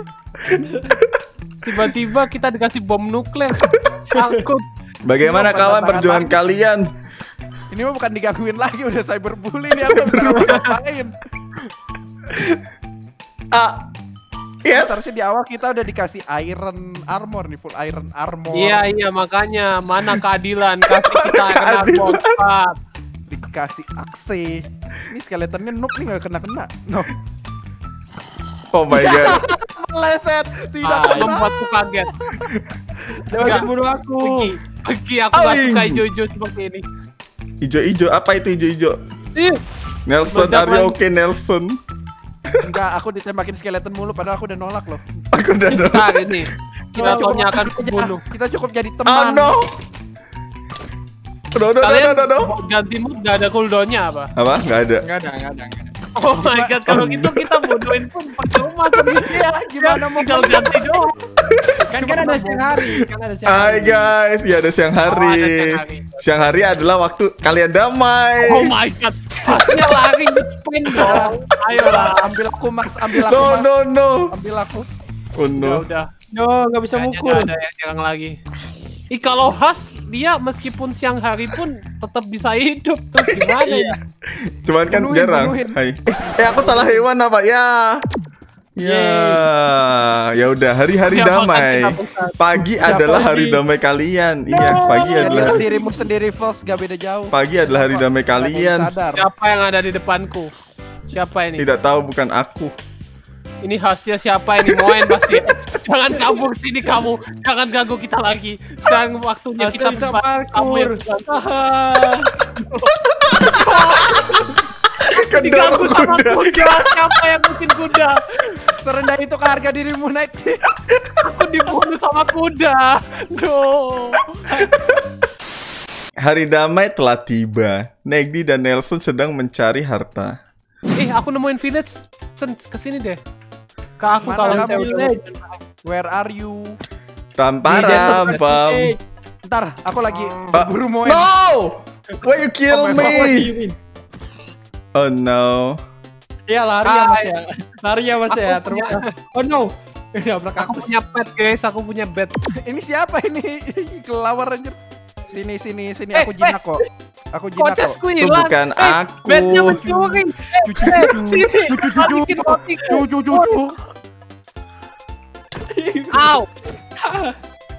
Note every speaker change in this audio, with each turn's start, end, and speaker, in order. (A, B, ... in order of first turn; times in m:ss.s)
0:00.5-0:00.9 A
0:01.6-0:04.6 B
0:05.0-0:06.9 C
0:05.2-0:06.4 D
0:07.7-0:11.1 D
0:09.8-0:10.6 C
0:10.4-0:10.7 B
0:13.5-0:13.8 C
0:14.6-0:15.1 C
0:14.7-0:18.8 D
0:18.5-0:22.8 B
0:21.0-0:22.4 C
0:23.3-0:27.1 D
0:28.7-0:29.4 C
0:28.9-0:31.6 D
0:30.8-0:32.1 B
0:30.9-0:31.3 A
0:33.3-0:34.5 A
0:33.3-0:33.7 D
0:33.4-0:33.7 B
0:34.2-0:36.8 B
0:35.3-0:36.0 C
0:37.6-0:39.0 C
0:39.4-0:39.6 B
0:40.1-0:41.8 C
0:40.3-0:41.0 B
0:42.6-0:45.0 D
0:45.3-0:46.4 C
0:45.7-0:48.2 B
0:46.9-0:49.5 D
0:47.0-0:47.4 A
0:49.0-0:49.7 C
0:51.5-0:52.5 C
0:51.8-0:54.3 B
0:54.4-0:55.0 C
0:55.0-0:55.9 A
0:56.2-1:01.1 B
0:56.4-0:57.1 D
0:56.9-0:57.7 C
0:58.8-1:01.1 D
1:01.5-1:01.8 C
1:01.9-1:04.1 A
1:02.0-1:02.6 B
1:02.0-1:02.5 D
1:03.4-1:08.7 C
1:05.0-1:06.2 B
1:08.4-1:12.3 B
1:10.8-1:11.4 A
1:10.9-1:13.7 D
1:13.2-1:14.3 C
1:14.3-1:14.8 D
1:15.4-1:15.8 C
1:15.5-1:16.1 B
1:16.3-1:17.5 A
1:16.9-1:18.4 B
1:19.1-1:24.0 B
1:23.6-1:24.0 A
1:24.4-1:28.0 C
1:24.9-1:27.0 D
1:28.8-1:35.6 C
1:28.8-1:29.4 A
1:31.1-1:32.3 B
1:32.8-1:33.6 A
1:34.5-1:36.0 A
1:35.2-1:39.2 D
1:37.3-1:38.9 C
1:39.1-1:40.5 B
1:41.1-1:41.7 B
1:41.6-1:42.7 C
1:43.6-1:51.3 B
1:49.6-1:52.3 A
1:52.6-1:54.4 B
1:53.3-1:54.3 C
1:55.0-1:57.2 C
1:55.2-1:58.2 B
1:58.8-2:00.6 D
2:01.2-2:04.4 B
2:06.2-2:10.4 C
2:11.0-2:13.2 B
2:14.0-2:15.6 B
2:14.2-2:15.2 A
2:14.2-2:14.9 D
2:15.8-2:16.7 D
2:17.4-2:18.9 C
2:17.7-2:19.0 A
2:17.7-2:18.4 B
2:19.4-2:21.3 D
2:20.5-2:23.5 C
2:22.7-2:23.3 D
2:22.9-2:23.8 A
2:24.9-2:25.8 C
2:26.5-2:31.0 A
2:26.8-2:27.3 B
2:28.3-2:29.0 B
2:30.6-2:32.4 B
2:32.5-2:38.0 D
2:36.1-2:36.6 B
2:37.6-2:43.5 B
2:38.2-2:39.8 C
2:39.7-2:43.7 D
2:45.6-2:46.4 A
2:46.1-2:46.5 B
2:46.9-2:47.4 A